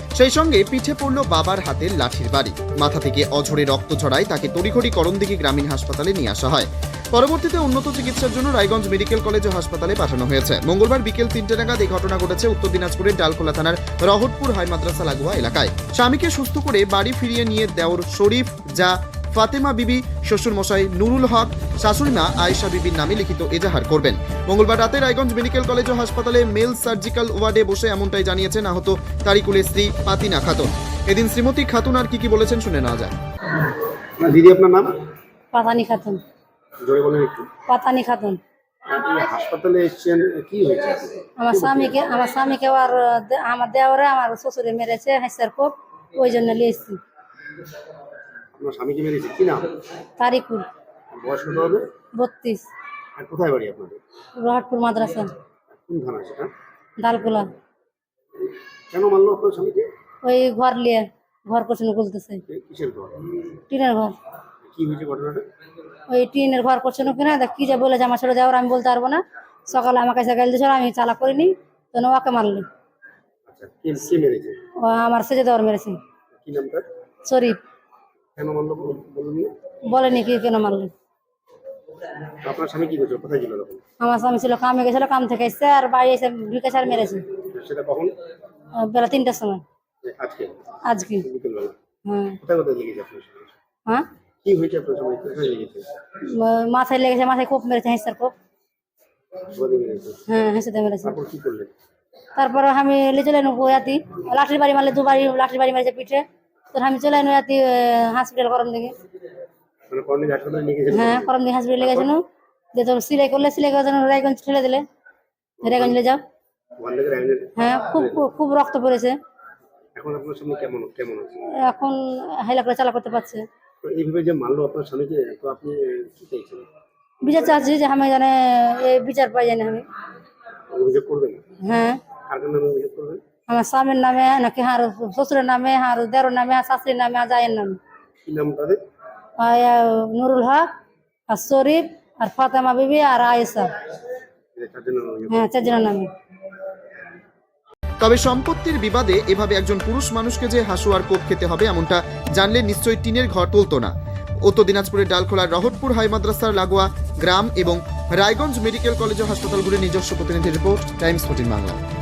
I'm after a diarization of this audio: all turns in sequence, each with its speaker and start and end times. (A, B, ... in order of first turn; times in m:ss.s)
0:00.2-0:33.2 A
0:34.2-0:34.9 B
0:35.5-0:36.2 C
0:36.8-0:37.5 B
0:37.7-0:38.4 C
0:38.9-0:42.0 B
0:41.4-0:47.0 C
0:48.6-0:49.7 B
0:50.2-0:50.6 C
0:51.2-0:51.8 B
0:52.2-0:52.7 C
0:53.2-0:54.0 B
0:54.4-0:55.3 C
0:55.7-0:56.5 B
0:57.0-0:57.5 C
0:58.9-0:59.9 B
1:00.2-1:02.4 C
1:02.5-1:03.2 B
1:03.7-1:04.1 C
1:04.7-1:05.4 B
1:06.1-1:12.6 C
1:13.5-1:14.6 B
1:14.8-1:15.9 C
1:16.4-1:16.8 B
1:17.3-1:17.6 C
1:18.4-1:19.5 B
1:19.9-1:20.9 C
1:22.4-1:23.8 B
1:24.0-1:27.2 C
1:27.5-1:28.1 B
1:28.9-1:29.6 C
1:30.0-1:30.5 B
1:30.9-1:31.3 C
1:31.2-1:31.7 B
1:32.1-1:32.4 C
1:32.4-1:33.5 B
1:34.4-1:35.8 B
1:36.4-1:38.3 C
1:39.5-1:40.2 B
1:40.3-1:41.1 C
1:41.0-1:41.7 B
1:42.4-1:48.9 C
1:49.9-1:52.1 B
1:50.9-1:52.2 C
1:52.7-1:54.8 C
1:55.6-1:56.2 C
1:55.6-1:56.0 B
1:56.8-1:58.2 B
1:57.6-1:59.2 C
2:00.0-2:01.4 B
2:01.6-2:03.4 C
2:03.8-2:06.6 B
2:07.2-2:09.8 C
2:10.7-2:11.4 B
2:11.7-2:12.0 C
2:12.2-2:13.2 B
2:13.5-2:17.8 C
2:18.2-2:18.8 B
2:19.4-2:20.7 C
2:21.3-2:23.7 C
2:24.5-2:25.5 B
2:25.3-2:26.1 C
2:28.0-2:33.9 A
2:34.4-2:41.8 A